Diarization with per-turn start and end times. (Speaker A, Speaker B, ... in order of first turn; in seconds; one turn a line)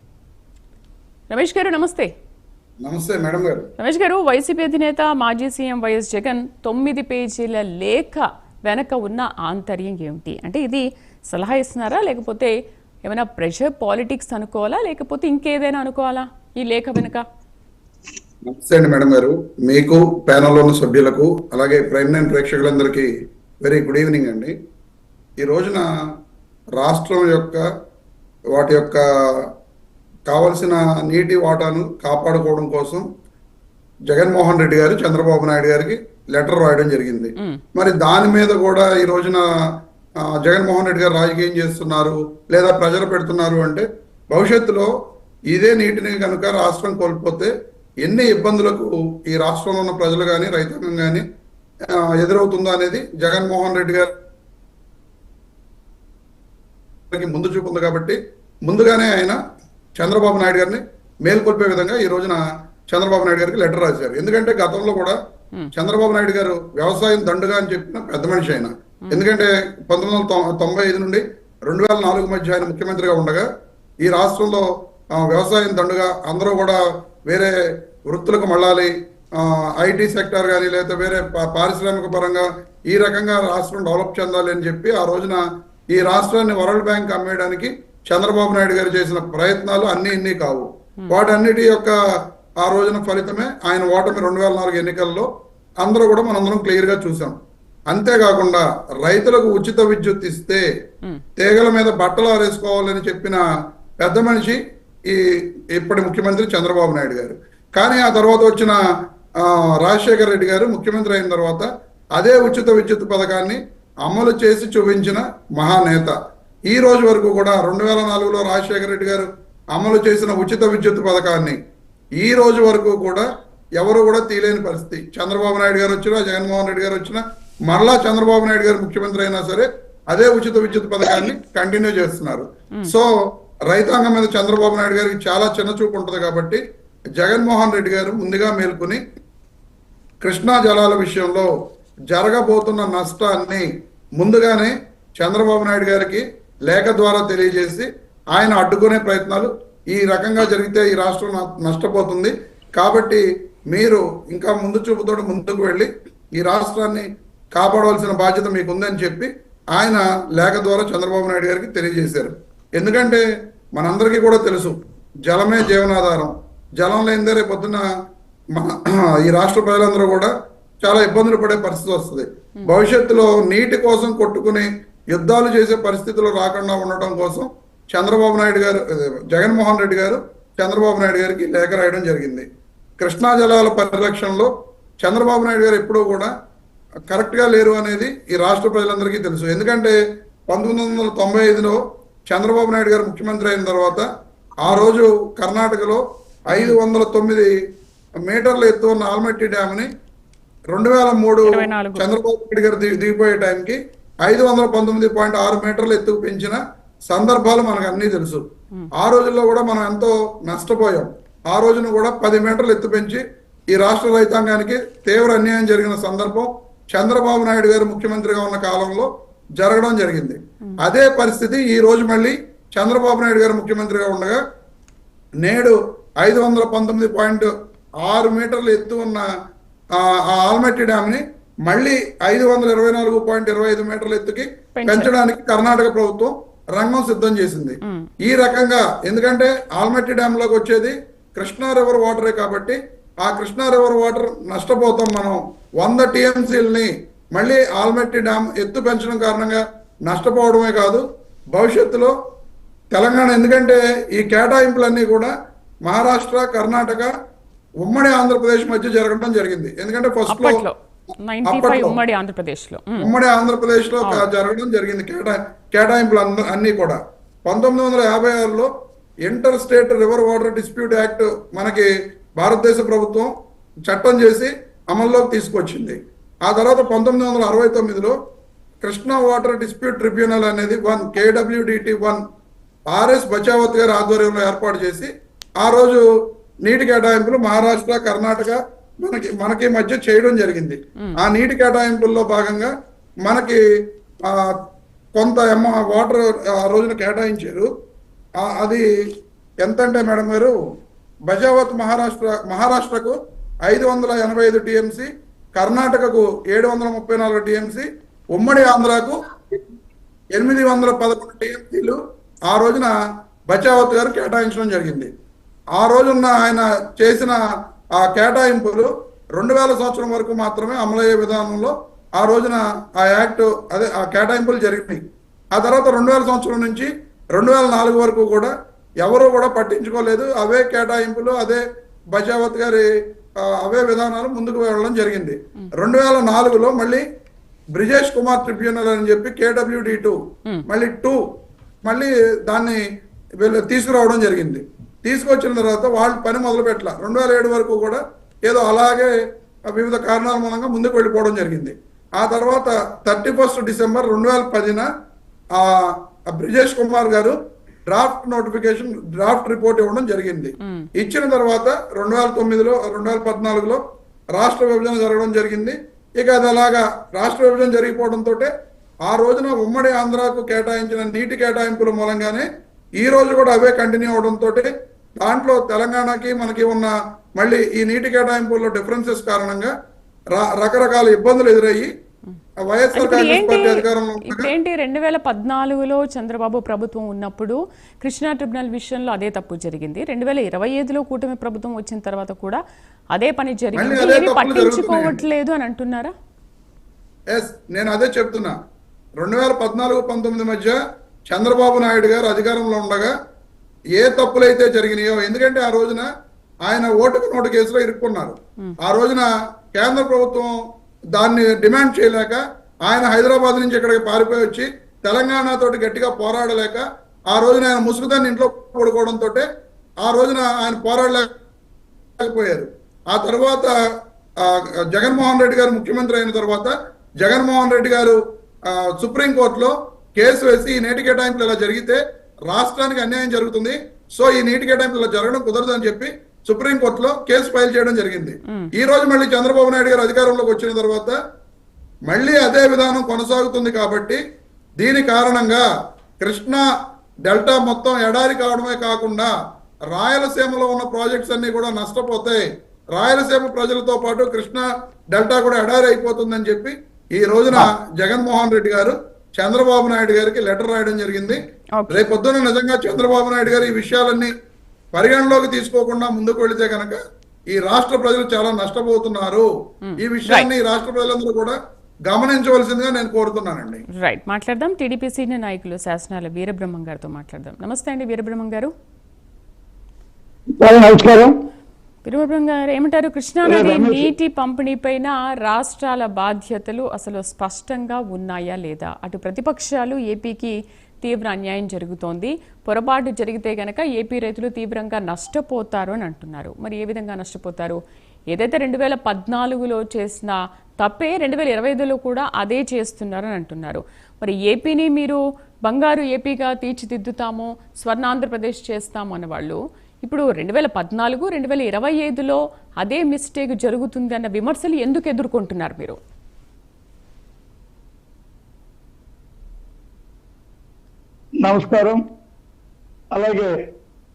Speaker A: 1.3-2.1
Speaker B: 2.8-3.7
Speaker A: 3.8-12.5
Speaker A: 13.0-17.2
Speaker B: 18.4-23.1
Speaker B: 23.6-24.5
Speaker B: 25.4-25.9
Speaker B: 26.8-27.6
Speaker B: 28.5-29.5
Speaker B: 30.3-33.0
Speaker B: 34.1-39.5
Speaker B: 40.4-44.9
Speaker B: 45.5-47.5
Speaker B: 48.0-51.2
Speaker B: 51.9-54.1
Speaker B: 57.1-59.4
Speaker B: 60.0-65.2
Speaker B: 65.7-73.5
Speaker B: 74.0-77.5
Speaker B: 78.0-95.3
Speaker B: 95.8-97.4
Speaker B: 97.9-100.6
Speaker B: 101.4-103.4
Speaker B: 104.0-108.8
Speaker B: 109.4-116.1
Speaker B: 116.7-121.6
Speaker B: 122.2-123.2
Speaker B: 123.8-133.2
Speaker B: 133.7-136.6
Speaker B: 137.2-139.0
Speaker B: 140.2-141.5
Speaker B: 142.1-163.2
Speaker B: 163.7-167.9
Speaker B: 168.5-182.5
Speaker B: 183.0-186.3
Speaker B: 187.1-190.0
Speaker B: 190.5-194.1
Speaker B: 194.6-197.5
Speaker A: 196.5-196.8
Speaker B: 198.2-199.9
Speaker B: 200.7-208.4
Speaker A: 201.4-202.1
Speaker B: 209.0-224.4
Speaker B: 225.4-227.5
Speaker B: 228.0-229.2
Speaker B: 229.9-252.1
Speaker A: 234.7-235.1
Speaker A: 237.8-238.1
Speaker B: 252.9-255.3
Speaker B: 255.8-257.1
Speaker B: 257.8-260.6
Speaker A: 260.3-263.1
Speaker B: 261.4-262.0
Speaker B: 263.0-268.7
Speaker A: 264.0-264.3
Speaker B: 269.2-273.3
Speaker B: 273.9-278.1
Speaker B: 278.8-282.2
Speaker B: 282.9-286.1
Speaker B: 286.6-292.7
Speaker B: 293.2-293.6
Speaker B: 294.2-294.6
Speaker B: 295.1-297.7
Speaker B: 298.4-298.9
Speaker B: 299.6-300.5
Speaker B: 301.3-309.6
Speaker B: 310.3-312.9
Speaker B: 313.5-315.1
Speaker B: 315.8-317.4
Speaker B: 317.9-325.0
Speaker B: 325.5-332.9
Speaker B: 333.4-337.0
Speaker B: 337.7-341.2
Speaker B: 341.8-342.8
Speaker B: 343.4-349.1
Speaker B: 349.7-354.9
Speaker B: 355.5-357.4
Speaker B: 357.9-363.8
Speaker A: 360.6-360.9
Speaker B: 364.3-368.5
Speaker B: 369.1-372.5
Speaker B: 373.0-374.7
Speaker B: 375.2-379.7
Speaker B: 380.3-381.9
Speaker B: 382.6-384.5
Speaker A: 382.9-392.6
Speaker A: 393.1-396.1
Speaker B: 393.7-395.2
Speaker B: 397.3-398.6
Speaker B: 399.2-400.8
Speaker B: 401.3-403.1
Speaker B: 404.0-406.1
Speaker B: 406.6-410.6
Speaker B: 411.1-419.5
Speaker B: 420.0-421.3
Speaker B: 422.2-423.7
Speaker B: 424.4-441.2
Speaker B: 442.1-444.2
Speaker B: 444.8-445.7
Speaker B: 446.2-446.7
Speaker B: 447.2-449.3
Speaker B: 449.9-464.3
Speaker A: 461.8-462.1
Speaker B: 464.9-467.0
Speaker B: 467.5-471.6
Speaker A: 469.8-470.5
Speaker B: 472.1-473.8
Speaker A: 473.9-478.7
Speaker C: 480.5-481.3
Speaker A: 482.0-516.0
Speaker C: 483.4-484.1
Speaker C: 521.4-522.0
Speaker C: 523.1-523.6